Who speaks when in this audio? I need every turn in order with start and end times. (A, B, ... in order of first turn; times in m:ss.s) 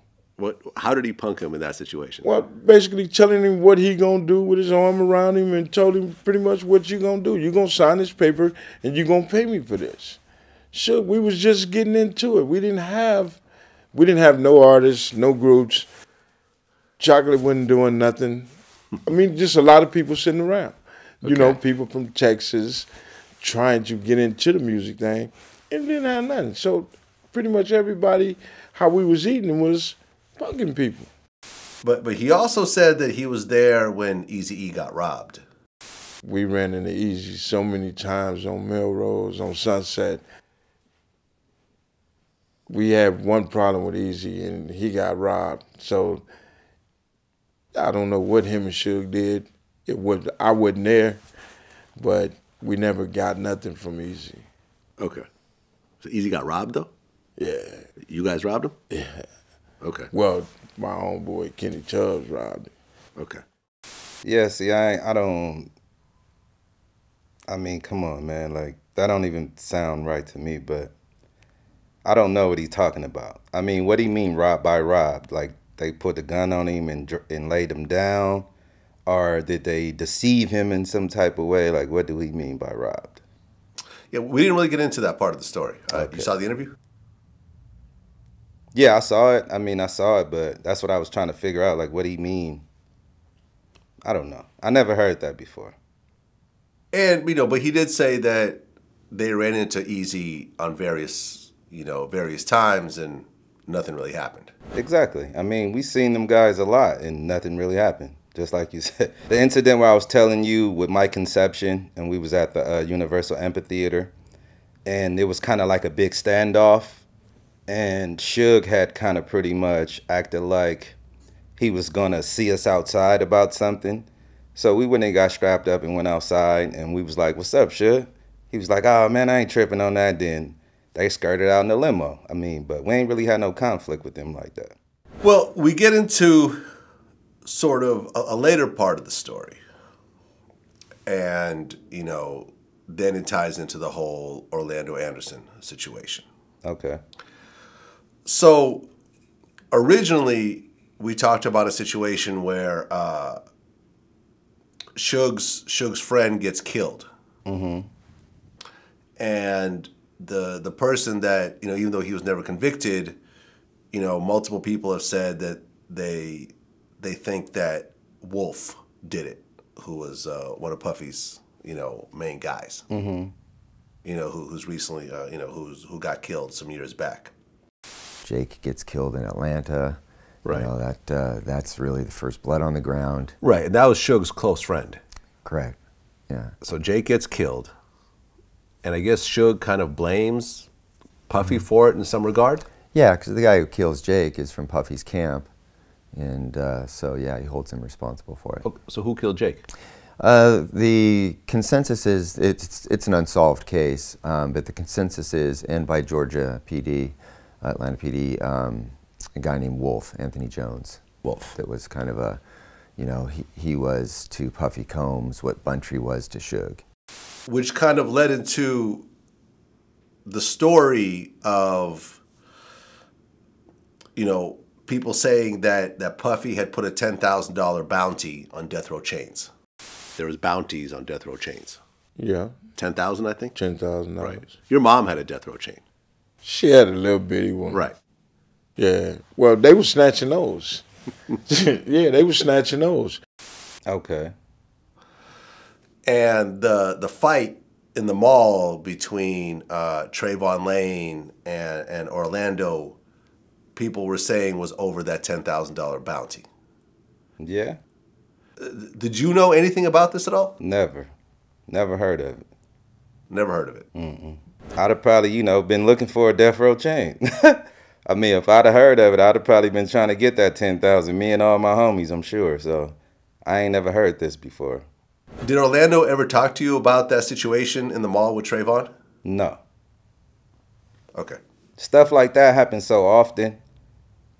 0:00.4-0:02.3 A
0:02.2-0:10.2 B
0:10.7-0:13.4 B
0:13.9-0:15.9 B
0:17.0-0:18.5 B
0:19.1-0:22.9 B
0:21.2-0:21.6 A
0:23.4-0:31.1 B
0:31.8-0:35.4 A
0:36.2-0:40.2 B
0:42.7-0:46.2 B
0:47.7-0:51.2 B
0:52.0-0:54.4 B
0:55.0-0:55.3 A
0:56.0-0:56.9 A
0:57.4-0:57.9 B
0:58.1-0:58.8 A
0:58.9-0:59.2 B
0:59.8-1:00.1 A
1:00.1-1:02.7 B
1:03.2-1:03.4 A
1:04.2-1:05.7 C
1:07.5-1:10.9 C
1:12.0-1:18.5 C
1:19.1-1:23.2 C
1:24.1-1:26.7 A
1:25.9-1:26.3 C
1:28.8-1:32.6 C
1:34.0-1:35.8 C
1:36.9-1:44.5 A
1:44.7-1:54.1 C
1:54.9-1:57.0 C
1:57.7-2:01.0 C
2:01.6-2:14.8 C
2:15.2-2:16.6 A
2:17.4-2:19.6 A
2:21.1-2:26.2 A
2:26.6-2:27.0 C
2:28.2-2:28.9 A
2:29.7-2:33.4 A
2:35.0-2:37.1 A
2:37.4-2:37.9 C
2:39.2-2:43.2 A
2:43.9-2:52.9 A
2:52.9-2:53.3 C
2:54.0-2:57.3 A
2:58.2-3:00.0 D
3:00.5-3:03.4 D
3:03.4-3:05.0 A
3:05.4-3:05.8 D
3:06.6-3:07.7 A
3:08.8-3:10.7 A
3:11.3-3:12.7 A
3:12.9-3:15.5 D
3:16.1-3:18.6 D
3:18.6-3:19.6 A
3:20.2-3:31.0 D
3:31.2-3:31.6 A
3:31.6-3:32.4 D
3:33.0-3:36.8 D
3:37.5-3:39.1 A
3:40.2-3:42.2 A
3:44.2-3:49.5 A
3:50.2-3:51.8 A
3:52.2-3:52.6 B
3:52.8-3:53.6 A
3:53.6-3:54.5 B
3:54.2-3:55.8 A
3:56.4-3:57.8 B
3:58.8-4:00.8 B
4:01.5-4:03.2 B
4:03.9-4:04.3 C
4:06.1-4:13.0 A
4:13.8-4:16.4 A
4:17.4-4:17.8 C
4:18.6-4:20.6 A
4:20.6-4:21.1 C
4:21.7-4:22.4 C
4:23.3-4:23.9 A
4:23.9-4:32.9 C
4:33.4-4:34.8 C
4:35.4-4:38.9 A
4:39.2-4:39.6 C
4:41.8-4:43.6 C